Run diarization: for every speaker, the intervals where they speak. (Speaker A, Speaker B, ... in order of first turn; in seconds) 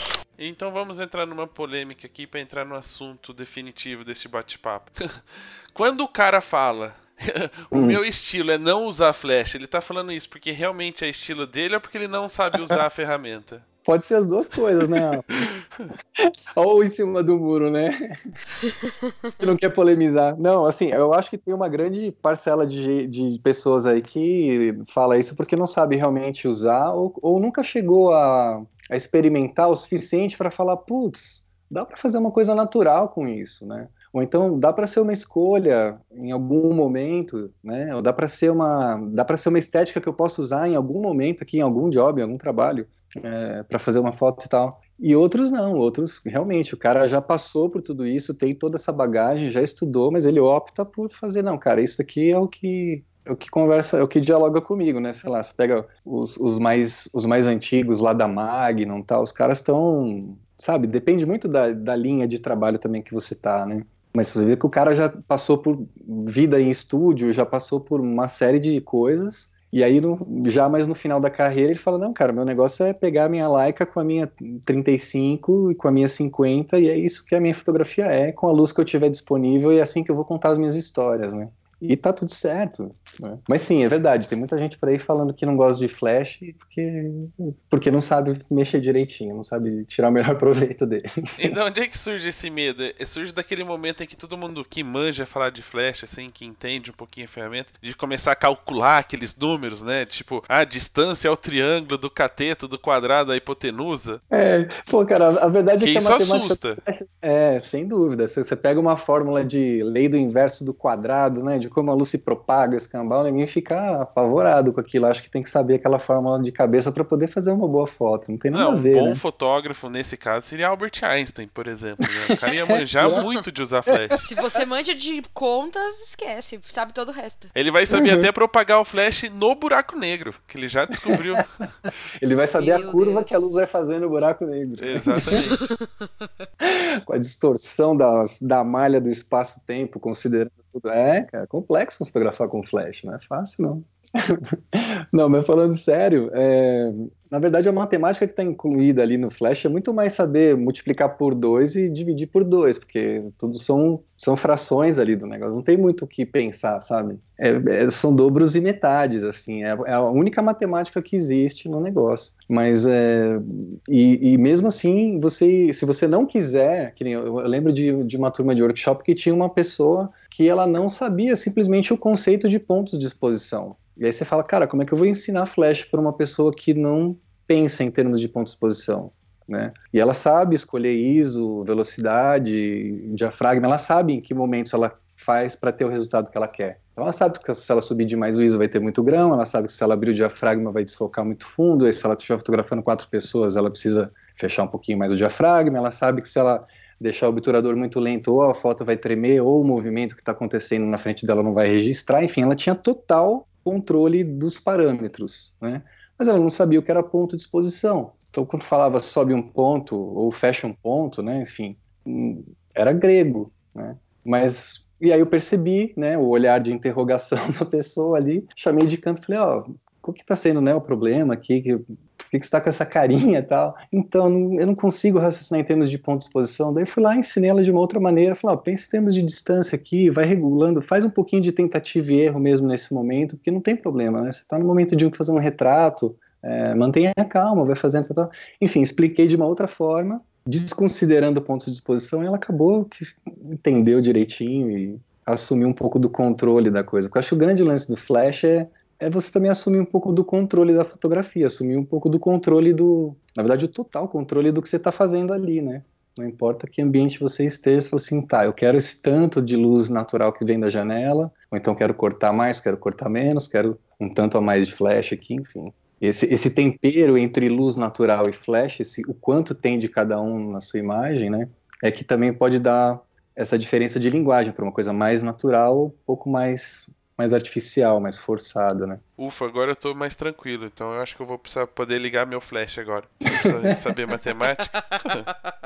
Speaker A: 0.4-13.7, 14.8-15.9, 91.4-104.2, 105.8-106.8, 118.5-124.2, 127.5-131.7, 134.8-135.6, 279.2-285.3
Speaker B: 7.7-8.0, 13.8-15.5, 16.2-17.9, 19.4-91.5, 104.3-119.2, 122.8-123.2, 127.9-128.2, 132.2-135.4, 136.6-279.0, 283.3-283.7
Speaker C: 124.2-127.5, 132.6-133.4, 135.3-136.1